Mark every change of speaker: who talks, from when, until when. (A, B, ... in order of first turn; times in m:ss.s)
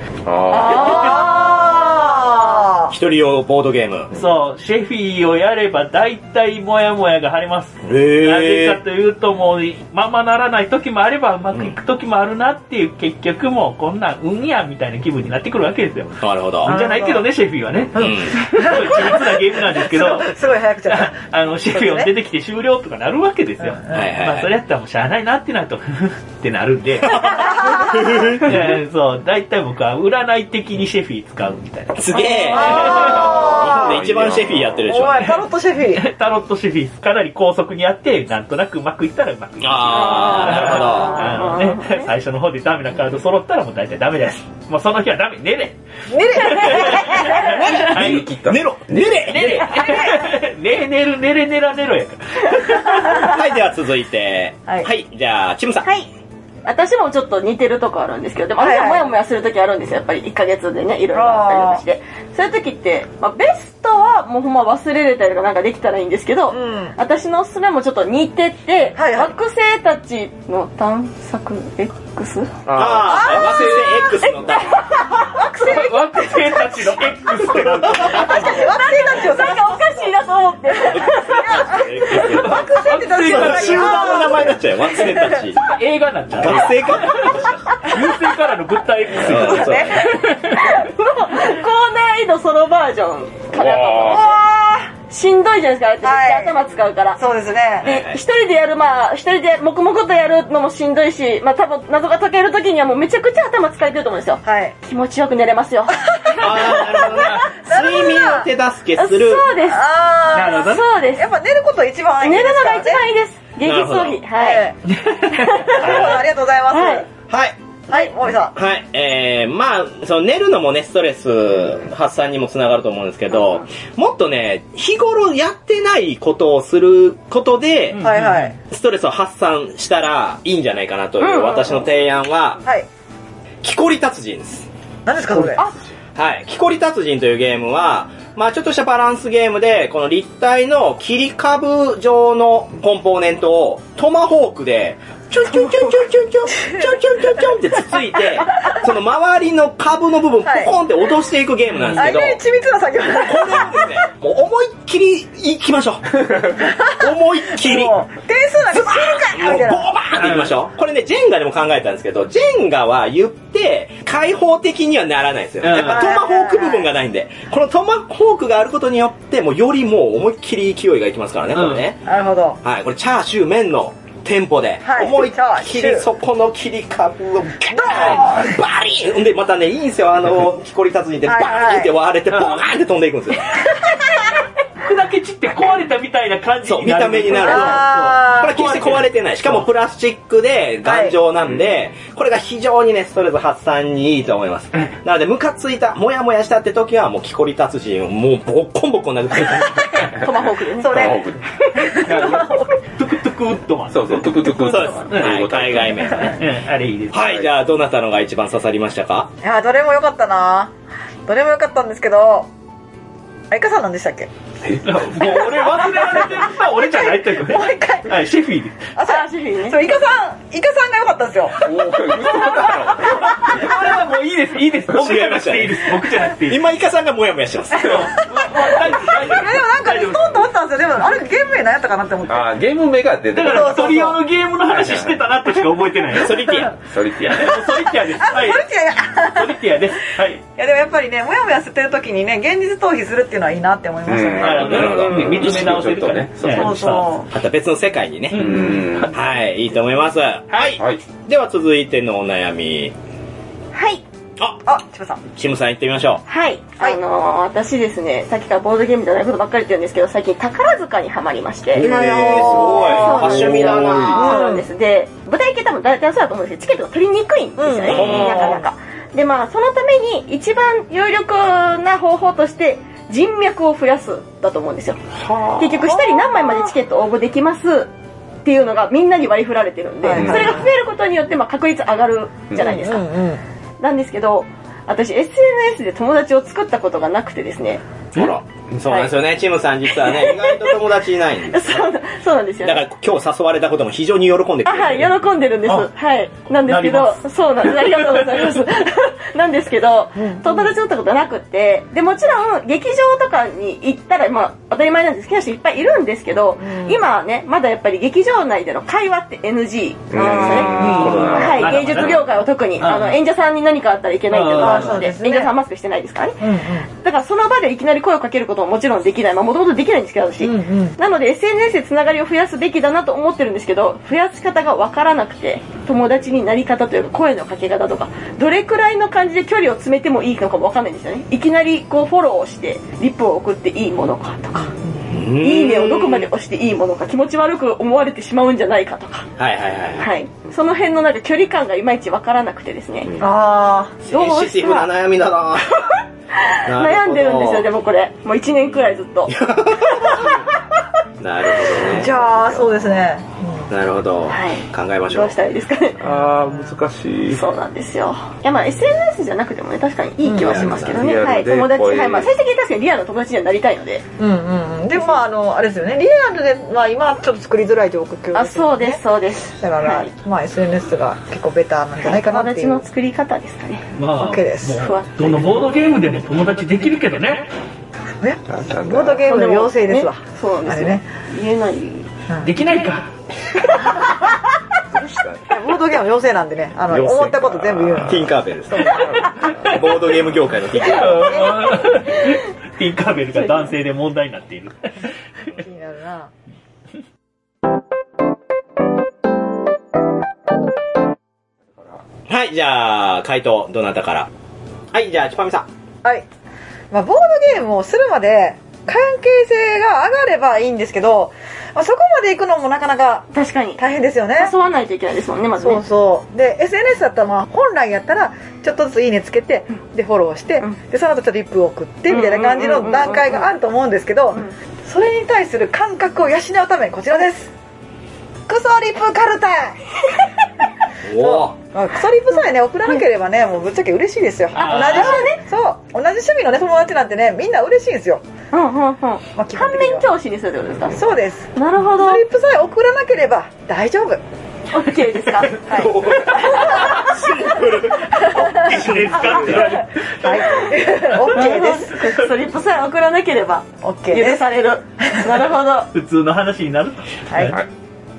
0:00.3-0:01.1 A
0:00.5-0:02.4 B
0:00.6-0:02.9 C
0:02.9-0:04.1 D
0:04.1-0:27.5 E
0:07.8-0:08.8 D
0:16.2-0:16.8 D
0:16.7-0:17.3 C
0:17.9-0:18.5 D
0:18.0-0:21.2 C
0:21.7-0:22.1 C
0:23.6-0:23.9 C
0:23.9-0:24.5 D
0:27.1-0:28.7 D
0:27.3-0:28.1 C
0:28.3-0:33.4 E
0:32.0-0:35.3 D
0:32.4-0:34.0 C
0:33.4-0:34.9 A
0:34.9-0:36.0 C
0:35.9-0:45.8 E
0:39.6-0:41.4 D
0:39.9-0:42.1 B
0:46.1-0:47.6 C
0:46.3-0:48.3 E
0:46.8-0:47.3 B
0:47.3-0:50.0 D
0:47.8-0:49.7 A
0:49.2-0:53.4 E
0:53.1-0:55.9 D
0:55.8-0:56.1 B
0:56.6-1:12.6 B
0:58.6-0:59.1 C
1:01.1-1:01.8 C
1:06.5-1:07.0 C
1:09.0-1:09.4 C
1:12.7-1:14.5 A
1:12.7-1:14.9 D
1:13.0-1:13.9 C
1:14.3-1:15.4 B
1:15.2-1:16.9 C
1:15.5-1:18.7 E
1:17.8-1:18.3 D
1:17.9-1:20.1 C
1:18.2-1:21.6 B
1:20.8-1:25.6 D
1:21.4-1:25.3 C
1:22.2-1:24.4 E
1:25.6-1:30.7 E
1:26.4-1:27.7 D
1:29.2-1:30.1 D
1:29.3-1:29.9 C
1:30.5-1:34.4 B
1:33.5-1:34.3 A
1:34.0-1:34.9 C
1:34.9-1:37.2 B
1:36.0-1:37.9 C
1:37.8-1:38.2 D
1:37.8-1:47.4 B
1:44.4-1:44.8 C
1:46.1-1:48.5 C
1:46.4-1:49.5 D
1:49.0-1:49.8 B
1:49.6-1:53.1 C
1:50.3-1:50.8 E
1:50.6-1:51.3 B
1:52.2-1:54.7 B
1:53.6-1:54.2 D
1:54.4-1:54.8 C
1:54.9-1:55.8 E
1:55.3-1:57.1 B
1:55.5-1:57.1 C
1:57.3-1:57.6 D
1:57.9-1:58.6 C
1:58.5-2:08.1 D
2:07.9-2:08.5 E
2:08.0-2:08.6 C
2:08.7-2:12.6 D
2:11.2-2:11.7 B
2:13.6-2:14.7 D
2:15.1-2:15.6 C
2:15.3-2:15.8 A
2:16.2-2:32.4 D
2:30.4-2:30.7 C
2:31.8-2:32.0 E
2:32.0-2:33.9 C
2:33.0-2:38.0 D
2:36.6-2:39.9 C
2:38.7-2:52.0 D
2:40.2-2:40.5 E
2:45.6-2:46.1 E
2:45.8-2:46.9 C
2:51.6-2:51.9 E
2:52.0-2:52.6 C
2:52.6-3:03.6 D
2:54.8-2:56.1 C
2:57.7-2:58.6 C
3:01.2-3:02.0 C
3:02.3-3:02.6 E
3:04.8-3:09.6 E
3:06.6-3:20.2 D
3:07.4-3:08.6 C
3:10.8-3:11.2 C
3:11.4-3:11.8 A
3:20.1-3:21.1 B
3:20.8-3:22.7 C
3:20.8-3:22.1 A
3:22.0-3:27.2 E
3:23.9-3:26.3 A
3:24.6-3:26.4 D
3:27.1-3:29.3 D
3:27.2-3:27.5 A
3:29.4-3:30.7 C
3:31.3-3:32.5 C
3:33.5-3:34.3 C
3:34.6-3:35.1 A
3:34.8-3:38.9 E
3:35.4-3:38.2 C
3:39.0-3:41.7 C
3:39.0-3:40.0 B
3:41.6-3:43.6 A
3:42.3-3:43.8 C
3:43.2-3:46.7 E
3:45.0-3:48.1 D
3:47.8-3:50.4 E
3:47.9-3:52.5 C
3:52.3-3:54.1 A
3:53.3-3:56.6 E
3:53.4-3:54.2 C
3:54.7-3:55.2 A
3:56.2-3:56.8 D
3:56.8-3:57.6 A
3:57.2-4:00.4 E
3:58.2-3:59.6 C
4:00.6-4:04.9 C
4:04.1-4:07.0 A
4:04.4-4:07.1 E
4:04.8-4:05.2 D
4:04.8-4:05.3 B
4:06.6-4:07.3 C
4:06.8-4:07.2 B
4:07.3-4:13.0 D
4:08.3-4:09.2 E
4:08.3-4:09.1 A
4:10.5-4:10.8 E
4:13.7-4:14.0 B
4:14.6-4:15.2 C
4:15.3-4:16.2 D
4:16.3-4:35.0 B
4:21.7-4:24.2 A
4:21.8-4:24.2 D
4:21.8-4:24.7 C
4:27.6-4:28.7 C
4:27.9-4:28.5 A
4:27.9-4:28.6 D
4:35.2-4:35.9 A
4:35.5-4:37.9 B
4:35.8-4:36.7 C
4:38.4-4:43.1 B
4:40.0-4:40.7 C
4:40.1-4:40.6 A
4:42.6-4:43.4 C
4:43.8-4:47.8 B
4:48.1-4:51.9 D
4:48.9-4:49.1 B
4:49.9-4:50.8 B
4:51.5-4:52.8 B
4:52.6-4:55.2 D
4:54.6-5:34.7 B
4:56.5-4:58.7 E
5:00.2-5:00.7 C
5:06.6-5:07.0 C
5:10.1-5:12.2 A
5:10.5-5:12.3 E
5:10.8-5:11.4 C
5:12.8-5:13.2 E
5:14.3-5:15.1 E
5:14.5-5:15.5 C
5:16.4-5:16.9 C
5:20.4-5:21.0 C
5:34.6-5:35.0 C
5:35.1-5:36.3 D
5:35.3-5:39.3 B
5:39.4-5:40.1 D
5:40.0-5:43.2 B
5:43.2-5:44.0 C
5:44.1-5:46.0 D
5:44.1-5:44.9 B
5:46.4-5:49.4 B
5:46.6-5:47.7 D
5:49.3-5:50.4 D
5:50.0-5:50.3 B
5:51.2-5:52.7 D
5:51.8-5:53.7 C
5:53.7-5:55.4 D
5:54.3-5:56.0 B
5:56.0-5:57.5 A
5:57.3-6:04.0 B
6:00.2-6:00.6 C
6:00.4-6:02.3 A
6:00.6-6:01.0 D
6:04.2-6:09.0 C
6:05.0-6:05.2 B
6:08.3-6:10.1 B
6:09.6-6:12.8 C
6:12.0-6:13.9 B
6:14.0-6:17.5 E
6:14.2-6:14.8 C
6:14.8-6:15.3 B
6:18.2-6:21.0 C
6:18.5-6:19.3 A
6:19.3-6:22.1 B
6:22.4-6:23.1 E
6:23.6-6:24.0 B
6:24.9-6:25.4 A
6:25.5-6:29.3 C
6:26.9-6:29.5 A
6:28.1-6:31.4 D
6:30.7-6:31.9 C
6:30.8-6:35.1 E
6:35.5-6:36.3 C
6:42.3-6:44.3 D
6:44.9-6:45.7 D
6:46.9-6:54.5 C
6:53.3-6:53.8 B
6:54.4-6:55.8 B
6:55.6-7:07.5 C
7:02.1-7:03.5 B
7:08.5-7:09.9 C
7:11.1-7:11.6 D
7:11.2-7:18.2 C
7:14.5-7:15.4 B
7:14.6-7:15.2 E
7:18.5-7:21.0 B
7:19.4-7:20.1 C
7:20.9-7:24.2 C
7:21.6-7:22.2 B
7:24.7-7:25.9 B
7:25.7-7:27.0 C
7:25.7-7:29.7 D
7:26.3-7:32.3 E
7:28.3-7:32.0 C
7:31.3-7:35.9 B
7:33.8-7:34.5 C
7:35.0-7:35.3 C
7:35.9-7:37.6 E